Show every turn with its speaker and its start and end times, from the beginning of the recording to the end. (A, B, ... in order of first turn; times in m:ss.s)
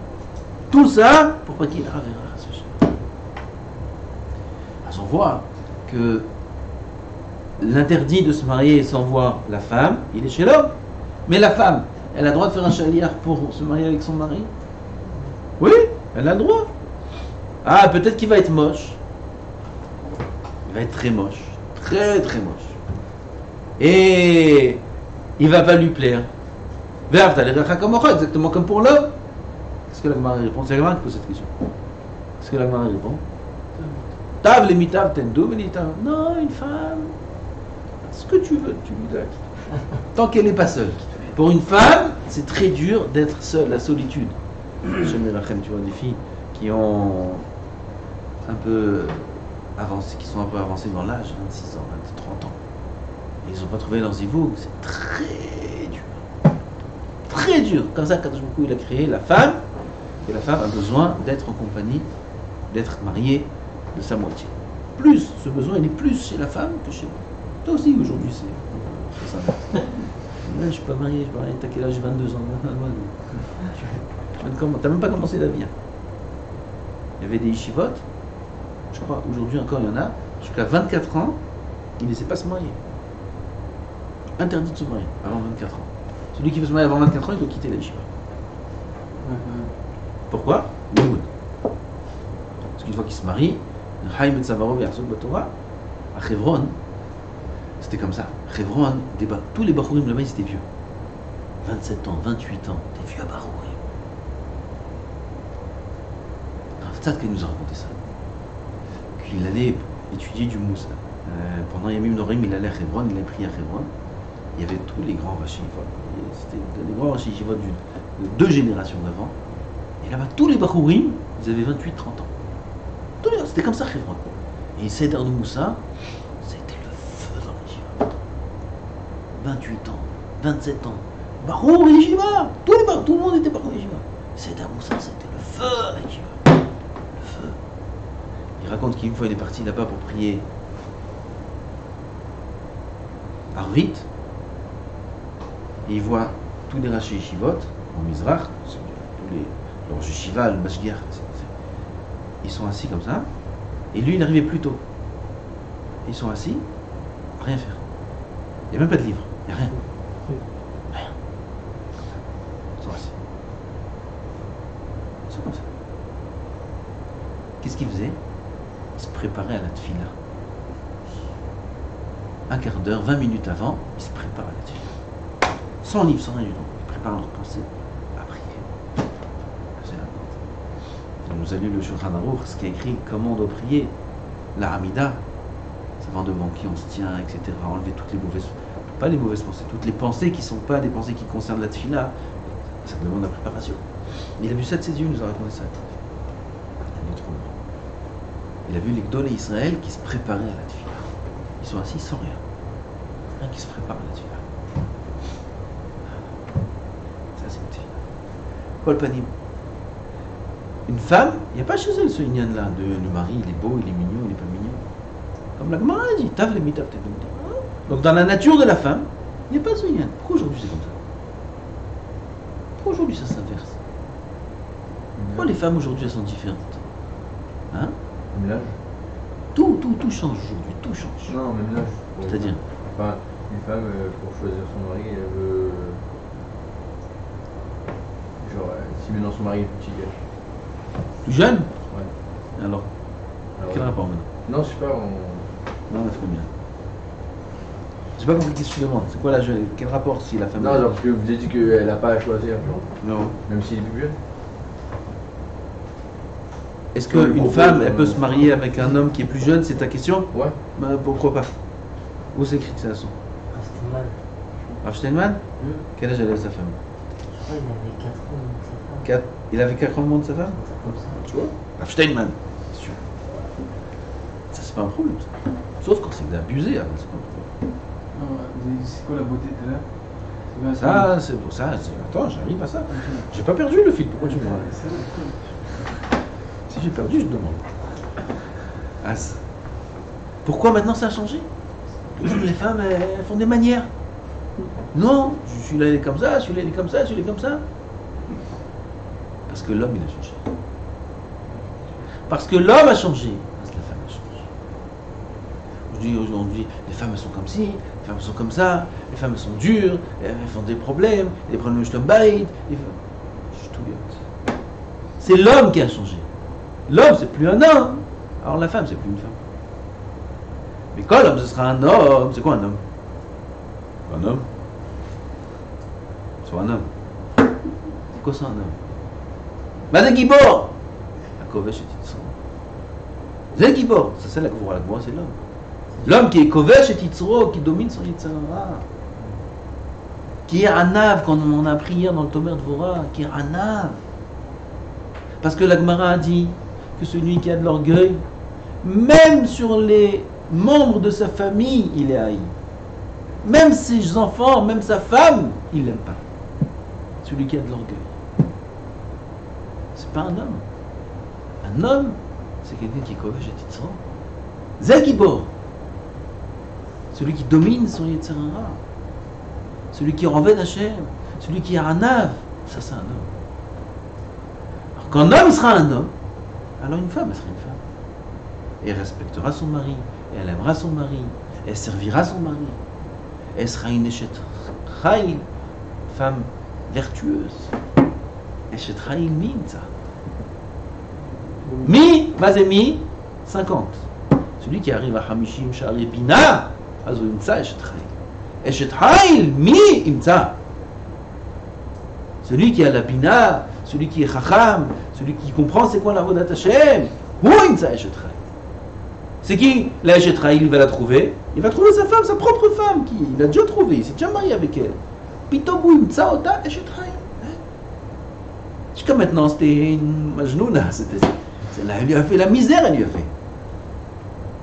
0:00.7-0:02.9 A
0:04.8-0:06.3 A
0:07.6-0:10.8 A
0:11.3-0:14.5 A
0:15.6-0:16.7 A
0:17.6-0:19.0 A
0:20.7-0:22.8 A
0:23.8-0:24.8 A
0:25.4-0:26.3 A
0:27.1-0:29.1 A
0:29.9-0:31.5 A
0:32.4-0:33.2 A
0:34.4-0:37.1 A
0:38.1-0:44.4 A
0:45.0-0:47.4 A
0:48.4-0:52.6 A
0:53.4-0:56.2 A
0:57.3-0:59.6 A
1:00.2-1:02.1 A
1:02.7-1:15.7 A
1:17.2-1:18.0 A
1:18.9-1:21.4 A
1:22.0-1:22.8 A
1:24.4-1:28.1 A
1:29.2-1:29.7 B
1:30.3-1:31.3 A
1:32.8-1:35.5 A
1:36.1-1:36.8 A
1:37.8-1:40.6 A
1:41.6-1:43.8 A
1:46.8-1:48.0 A
1:49.2-1:53.9 A
1:54.6-1:59.4 A
2:00.0-2:02.3 A
2:03.2-2:05.8 A
2:06.4-2:08.0 A
2:09.3-2:16.5 A
2:17.2-2:17.6 A
2:18.6-2:20.5 A
2:23.5-2:24.1 A
2:25.9-2:31.5 A
2:32.4-2:33.3 A
2:33.9-2:34.8 A
2:36.1-2:36.6 A
2:37.4-2:37.8 A
2:38.7-2:39.8 A
2:42.8-2:43.1 A
2:45.3-2:45.6 A
2:47.6-2:48.2 A
2:49.0-2:50.2 A
2:52.5-2:54.9 A
2:55.8-2:58.7 A
2:59.8-3:00.4 A
3:01.2-3:03.9 A
3:04.6-3:05.2 A
3:06.0-3:12.1 A
3:12.8-3:13.8 A
3:14.4-3:15.8 A
3:16.9-3:17.6 A
3:18.7-3:21.1 A
3:21.6-3:22.4 A
3:23.4-3:24.4 A
3:27.4-3:27.9 A
3:28.8-3:29.3 A
3:30.9-3:34.8 A
3:35.6-3:41.0 A
3:42.8-3:43.8 A
3:45.2-3:45.6 C
3:45.3-3:46.8 A
3:48.3-3:48.8 C
3:49.6-3:51.4 A
3:51.3-3:56.0 C
3:52.3-3:52.6 A
3:58.4-4:00.2 C
4:01.2-4:01.7 A
4:02.6-4:02.9 A
4:03.6-4:05.5 C
4:03.7-4:04.3 A
4:05.9-4:06.5 A
4:08.2-4:10.9 A
4:10.6-4:12.9 C
4:13.0-4:13.4 A
4:13.5-4:14.2 C
4:16.9-4:21.5 A
4:17.0-4:18.8 C
4:22.3-4:23.1 A
4:23.5-4:24.2 D
4:24.8-4:25.4 A
4:25.6-4:25.8 D
4:26.0-4:26.8 A
4:27.3-4:29.1 D
4:29.0-4:30.6 A
4:30.5-4:31.2 D
4:31.2-4:33.0 A
4:34.5-4:35.3 A
4:35.8-4:37.5 A
4:38.1-4:39.9 B
4:40.5-4:41.2 B
4:40.8-4:44.8 A
4:42.9-4:43.3 B
4:44.2-4:45.5 B
4:46.7-4:47.7 A
4:49.0-4:49.4 A
4:50.4-4:51.5 A
4:52.2-4:53.9 A
4:54.9-4:57.6 A
4:59.5-5:00.5 A
5:02.3-5:04.5 A
5:05.9-5:13.0 A
5:13.5-5:14.2 A
5:15.2-5:16.3 A
5:16.9-5:19.4 A
5:20.9-5:22.8 A
5:24.1-5:24.5 A
5:26.4-5:26.9 A
5:28.1-5:28.8 A
5:29.9-5:30.7 A
5:31.4-5:32.3 A
5:33.5-5:35.4 A
5:36.0-5:38.8 A
5:40.5-5:44.0 A
5:45.4-5:48.2 A
5:48.8-5:52.5 A
5:53.4-5:56.2 A
5:57.2-5:58.1 A
6:00.0-6:00.6 A
6:01.6-6:04.0 A
6:04.8-6:05.5 A
6:07.1-6:08.8 A
6:09.9-6:13.3 A
6:15.0-6:16.1 A
6:16.8-6:17.8 A
6:18.8-6:22.8 A
6:23.6-6:25.4 A
6:26.1-6:27.7 A
6:28.7-6:29.9 A
6:31.6-6:31.9 B
6:31.8-6:34.0 A
6:34.6-6:38.1 A
6:38.6-6:40.6 A
6:42.4-6:48.4 A
6:49.4-6:55.0 A
6:55.5-6:57.6 A
6:58.9-7:03.3 A